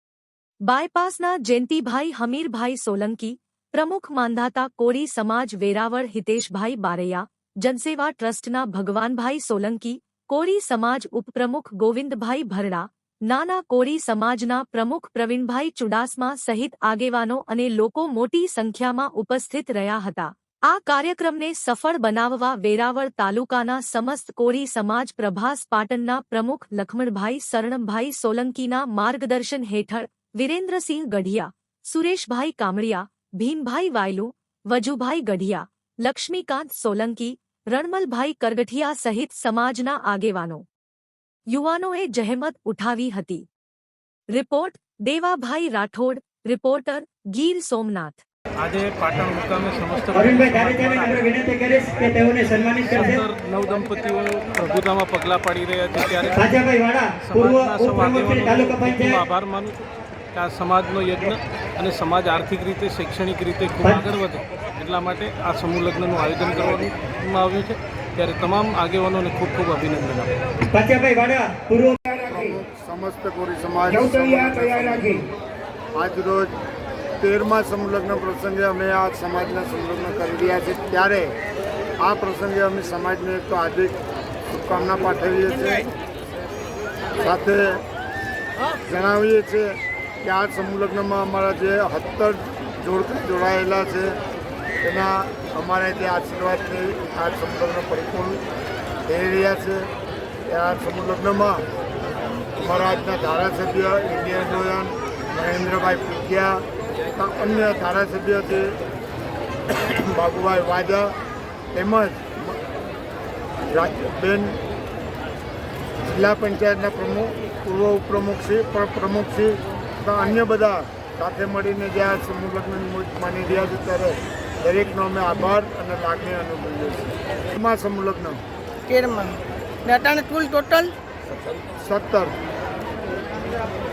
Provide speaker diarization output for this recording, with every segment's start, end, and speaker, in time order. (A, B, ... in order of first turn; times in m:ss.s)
0:00.6-0:40.6 A
0:41.5-0:43.5 A
0:44.3-0:48.2 A
0:48.6-0:51.3 B
0:50.2-0:53.2 C
0:52.8-0:56.5 B
0:56.3-0:59.2 C
0:57.2-0:59.8 B
1:00.3-1:10.3 B
1:10.7-1:12.0 C
1:12.3-1:15.2 D
1:15.9-1:16.6 D
1:17.2-1:21.4 D
1:22.0-1:24.0 D
1:24.5-1:25.9 D
1:27.2-1:27.8 D
1:28.8-1:34.2 D
1:34.8-1:38.4 D
1:39.1-1:39.9 D
1:40.5-1:41.6 D
1:42.6-1:48.8 D
1:49.8-1:51.2 D
1:51.7-1:52.6 D
1:53.7-1:54.6 D
1:56.0-2:08.4 D
2:08.9-2:10.9 E
2:11.8-2:12.4 D